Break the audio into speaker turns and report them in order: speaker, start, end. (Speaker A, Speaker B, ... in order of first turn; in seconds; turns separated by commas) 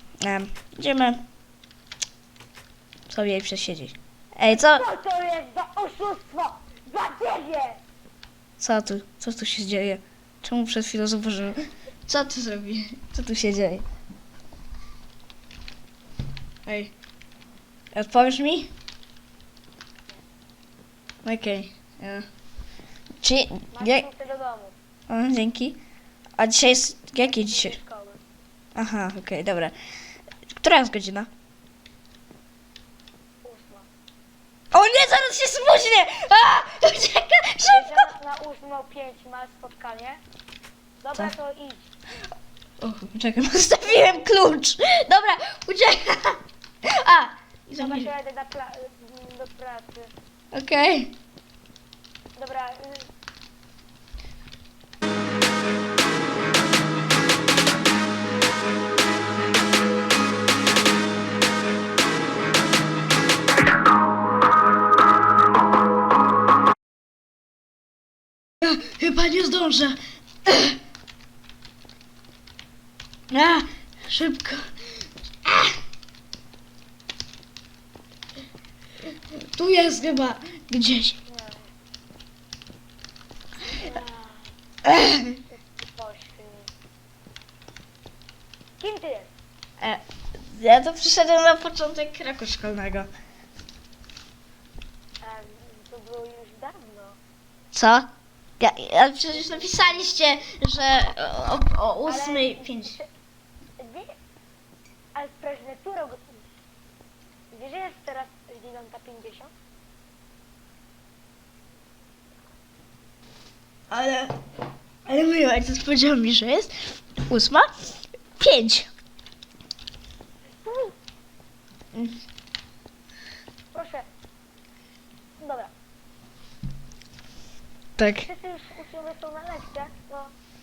Speaker A: 0.2-1.2, Speaker A: 3.1-4.8, Speaker B: 4.5-7.8, Speaker A: 8.6-13.9, Speaker A: 16.7-16.9, Speaker A: 17.9-18.7, Speaker A: 21.2-22.2, Speaker A: 23.2-24.1, Speaker B: 23.7-24.8, Speaker A: 25.1-25.8, Speaker A: 26.4-27.8, Speaker B: 27.2-28.2, Speaker A: 28.8-29.7, Speaker A: 30.6-31.3, Speaker B: 33.4-33.9, Speaker A: 34.7-38.1, Speaker B: 37.6-40.2, Speaker B: 41.0-41.9, Speaker A: 42.8-48.1, Speaker B: 43.8-44.3, Speaker B: 47.8-50.1, Speaker A: 50.5-51.1, Speaker B: 52.4-53.1, Speaker A: 68.6-70.8, Speaker A: 73.3-74.7, Speaker A: 75.4-75.8, Speaker A: 79.0-81.2, Speaker B: 81.3-81.7, Speaker B: 83.7-84.5, Speaker A: 84.8-85.4, Speaker B: 85.5-86.7, Speaker B: 88.8-89.3, Speaker A: 89.8-93.1, Speaker B: 95.2-97.2, Speaker A: 97.7-102.9, Speaker B: 99.3-100.1, Speaker B: 102.1-103.1, Speaker B: 103.8-104.1, Speaker B: 105.1-106.4, Speaker B: 107.5-109.5, Speaker A: 113.9-114.3, Speaker A: 115.1-116.7, Speaker A: 117.3-117.7, Speaker A: 118.4-118.9, Speaker B: 120.5-121.0, Speaker A: 121.9-122.2, Speaker B: 123.7-124.1, Speaker B: 125.4-125.7, Speaker A: 128.0-128.3, Speaker B: 128.2-130.3